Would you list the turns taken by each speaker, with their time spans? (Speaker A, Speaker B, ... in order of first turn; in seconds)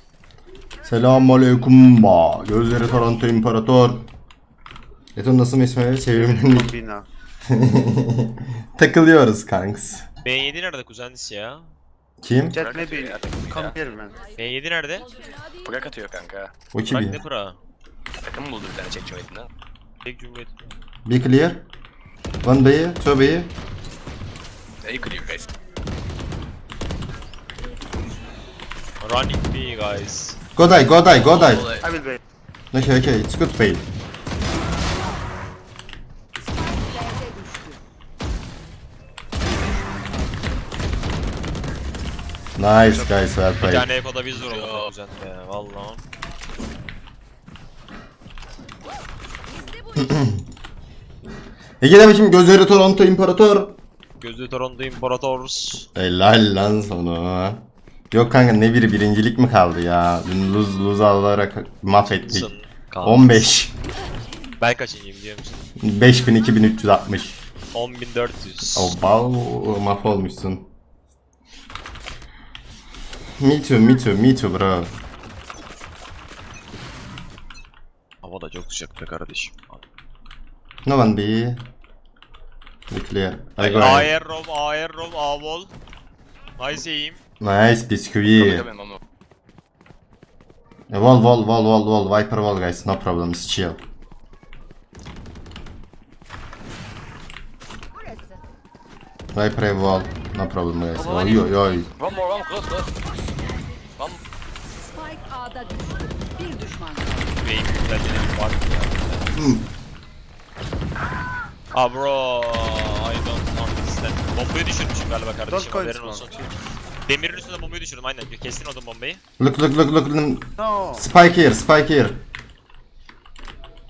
Speaker A: 0.8-4.1, 5.2-6.7, 7.5-10.1, 12.2-12.6, 16.7-17.2, 21.1-21.6, 22.4-23.5, 30.6-31.7, 32.7-33.9, 42.6-43.9, 50.0-50.4, 51.8-53.8, 56.0-62.5, 63.0-63.8, 65.8-67.4, 68.8-70.7, 73.4-74.9, 80.8-81.7, 82.9-84.1, 87.4-88.7, 90.9-93.8, 99.3-101.9, 109.4-109.7, 119.4-122.2
Speaker B: 6.1-7.1, 12.5-14.2, 31.8-32.2, 42.7-43.2, 115.5-116.5, 120.6-121.1
Speaker C: 10.2-11.7, 14.4-15.1, 16.9-17.6, 20.1-20.6, 29.0-30.4, 43.6-46.0, 54.2-55.9, 62.0-63.5, 64.6-65.7, 67.7-69.0, 78.2-79.8, 83.6-85.7, 86.6-87.2, 107.4-109.5, 111.7-116.4, 117.0-119.2
Speaker D: 12.5-13.8, 15.6-16.5, 18.2-19.5, 24.8-25.5, 31.1-31.9, 44.4-44.9, 88.3-89.0, 101.0-101.3, 102.0-102.9
Speaker E: 14.1-15.9, 36.4-37.8, 39.4-40.5, 49.5-50.4, 97.9-98.4, 102.1-102.9, 104.7-107.4